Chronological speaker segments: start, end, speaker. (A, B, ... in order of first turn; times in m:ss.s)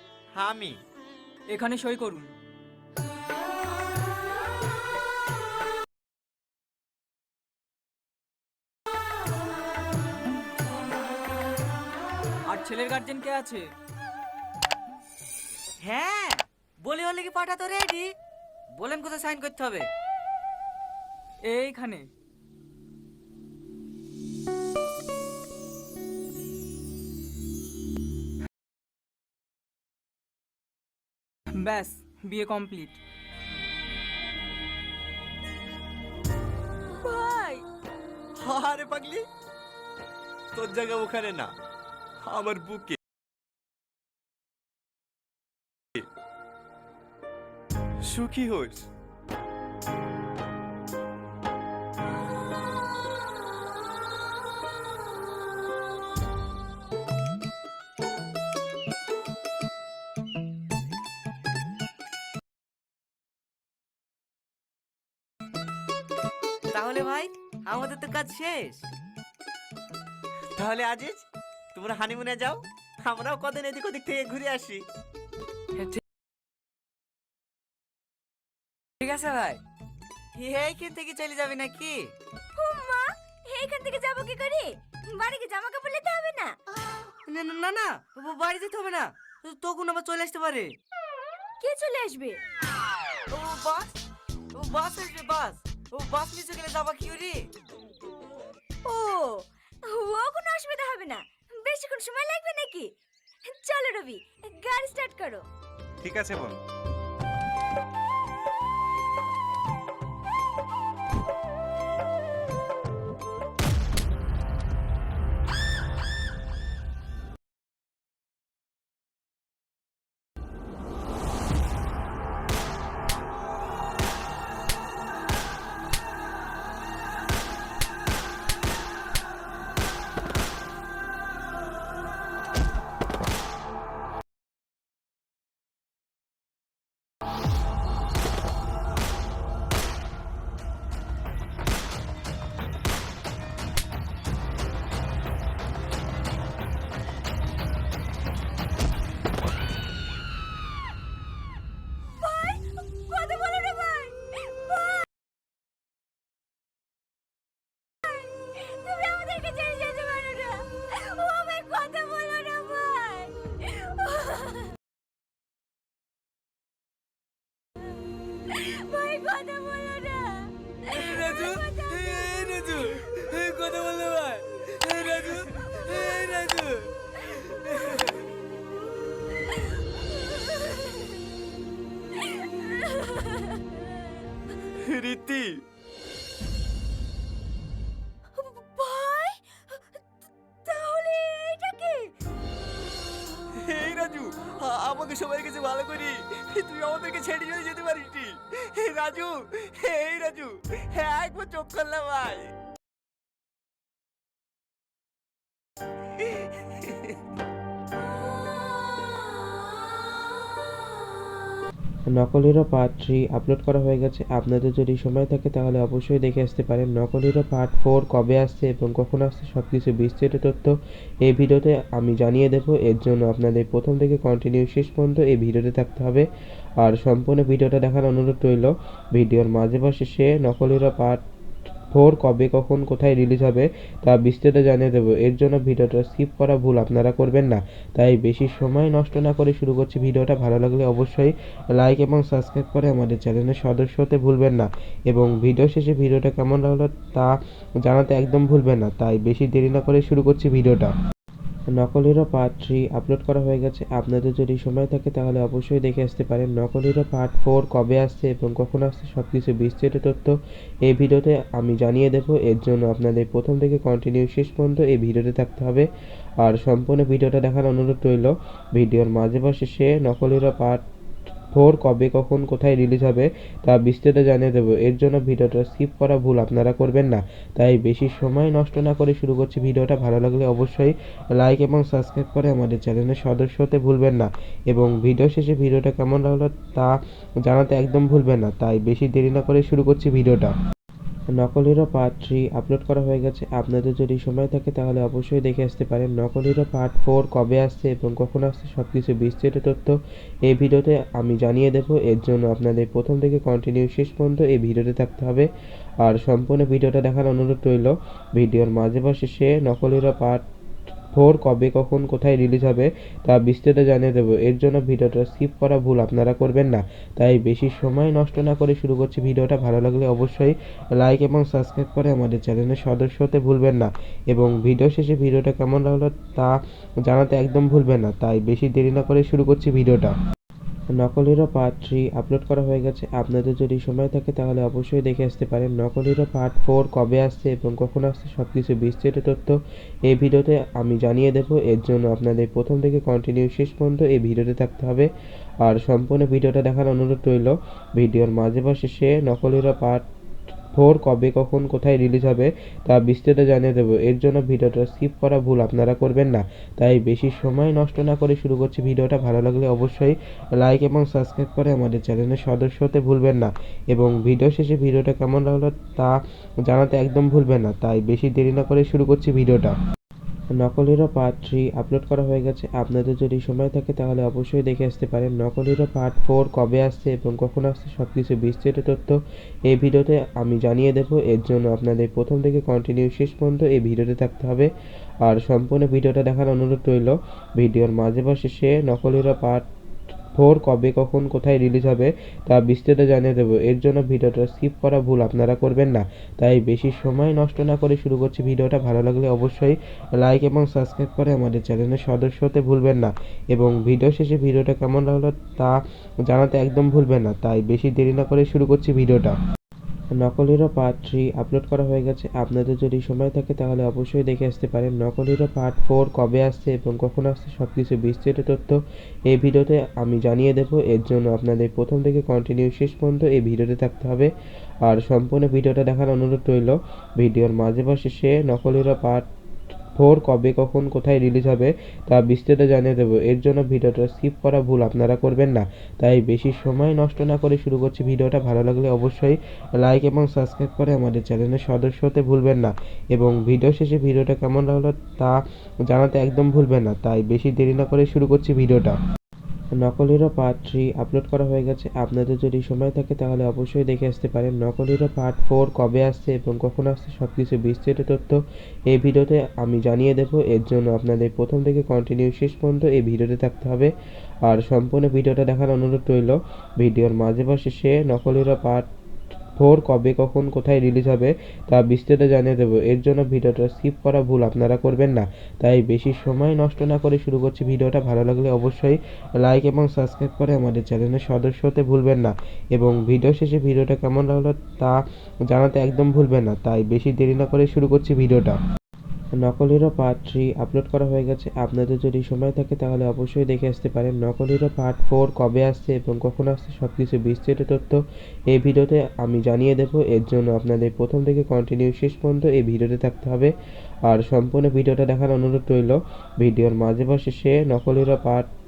0:00.3-0:00.8 A
0:01.5-0:02.3 B
0:12.5-0:13.7 B
0:15.8-0:18.1 C
0:18.7-0:19.9 C
0:21.4-0:22.1 B
0:31.6-0:33.0 B
0:37.0-0:37.6 D
0:38.4-0:39.3 A
0:40.5-0:41.5 A
0:42.2-0:43.0 A
0:48.0-0:48.9 A
1:06.7-1:08.9 C
1:10.6-1:14.9 A
1:19.0-1:19.6 C
1:20.4-1:22.1 C
1:22.6-1:26.6 D
1:27.3-1:30.8 C
1:31.6-1:32.4 D
1:33.3-1:34.0 C
1:34.5-1:37.5 C
1:38.9-1:42.9 D
1:43.5-1:45.5 D
1:46.0-1:46.6 A
2:32.2-2:35.0 D
2:38.0-2:44.8 D
2:48.5-2:56.6 D
2:54.9-2:56.9 A
2:57.5-2:58.0 A
3:00.3-3:01.0 D
3:02.4-3:03.6 D
3:04.8-3:05.6 A
3:08.4-3:09.8 D
3:10.6-3:12.1 D
3:13.6-3:22.5 A
3:32.1-3:46.3 E
3:46.8-3:51.2 E
3:51.9-4:10.9 E
4:11.7-4:25.9 E
4:26.4-4:30.8 E
4:31.5-4:50.5 E
4:51.3-5:05.5 E
5:06.0-5:10.4 E
5:11.1-5:30.2 E
5:30.9-5:45.1 E
5:45.6-5:50.1 E
5:50.8-6:09.8 E
6:10.6-6:24.7 E
6:25.2-6:29.7 E
6:30.4-6:49.4 E
6:50.2-7:04.3 E
7:04.8-7:09.3 E
7:10.0-7:29.0 E
7:29.8-7:43.9 E
7:44.4-7:48.9 E
7:49.6-8:08.6 E
8:09.4-8:23.5 E
8:24.0-8:28.5 E